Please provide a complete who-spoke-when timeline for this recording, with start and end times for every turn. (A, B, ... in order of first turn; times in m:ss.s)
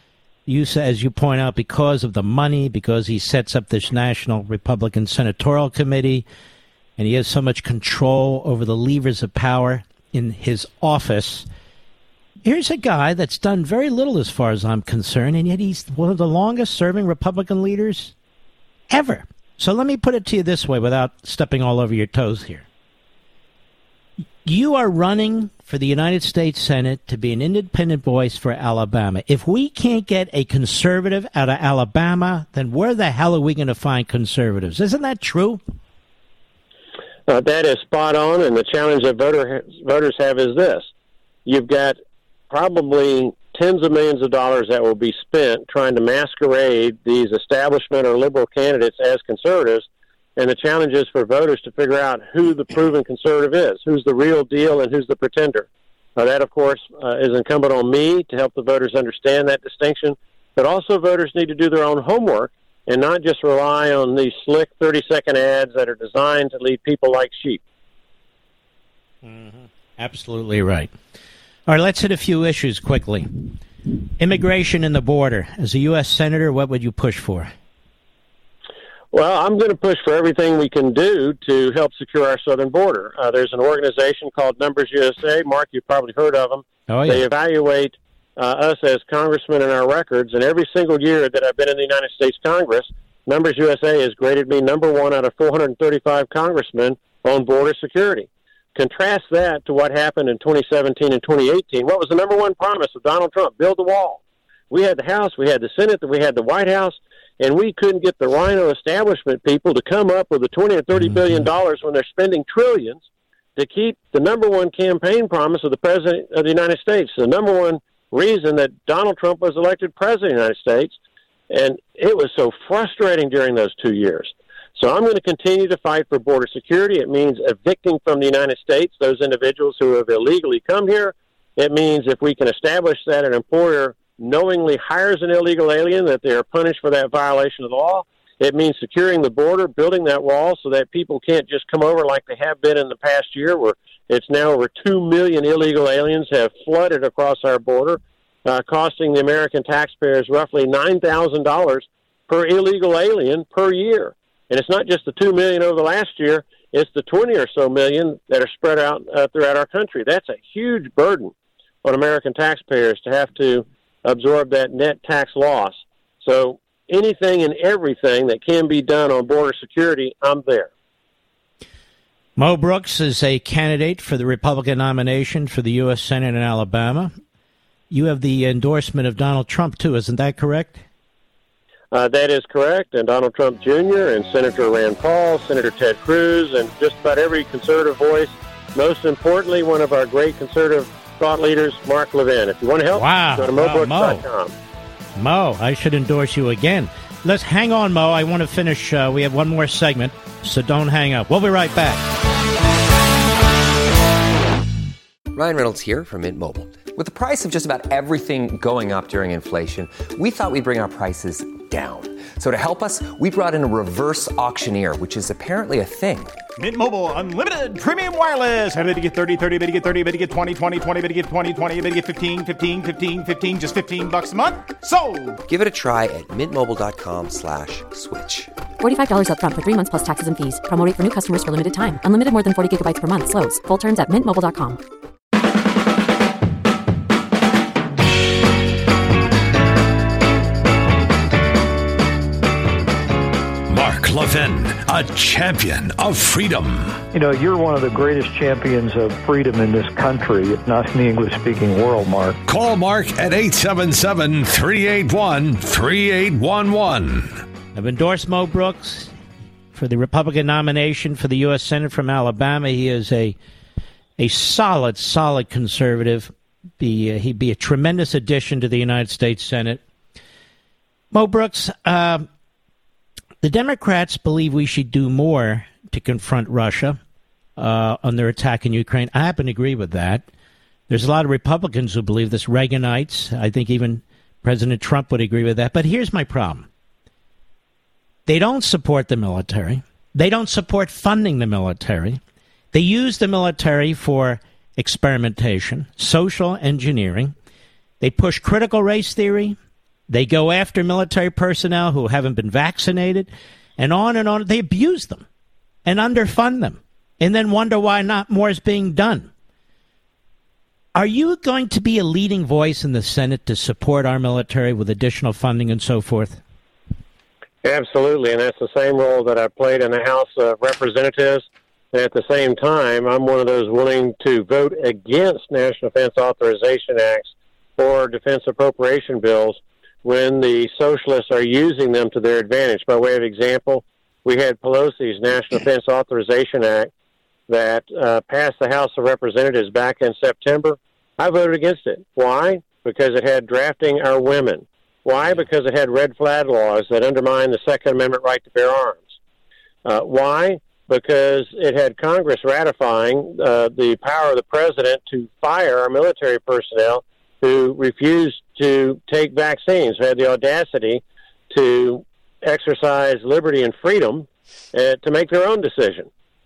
0:00.5-0:06.2 A
0:07.0-0:11.5 A
0:12.4-0:18.1 A
0:18.9-0:22.6 A
0:24.4-0:35.6 A
0:37.3-0:40.9 B
0:41.5-0:42.0 B
0:42.5-1:07.6 B
1:09.2-1:10.9 A
1:11.7-1:13.6 A
1:14.2-1:17.5 A
1:19.1-1:53.0 B
1:26.9-1:27.2 A
1:53.6-2:01.0 B
2:01.5-2:41.3 B
2:41.8-2:50.7 B
2:52.4-2:57.1 A
2:57.9-3:00.8 A
3:01.9-3:14.5 B
3:12.9-3:14.3 A
3:15.2-3:22.0 A
3:25.3-3:36.4 C
3:36.6-3:45.4 D
3:45.5-3:48.5 C
3:48.8-3:54.8 E
4:03.7-4:07.0 F
4:07.2-4:12.3 G
4:12.5-4:17.4 F
4:17.8-4:19.1 A
4:19.7-4:23.4 A
4:24.2-4:29.8 A
4:31.1-4:32.3 A
4:33.4-4:37.0 A
4:37.6-4:40.2 A
4:40.9-4:46.7 A
4:48.3-4:52.2 A
4:52.7-4:57.3 A
4:58.0-4:59.6 A
5:00.1-5:05.2 A
5:05.8-5:09.3 A
5:11.0-5:16.4 A
5:17.6-5:36.9 B
5:37.5-5:49.2 B
5:49.8-6:06.1 B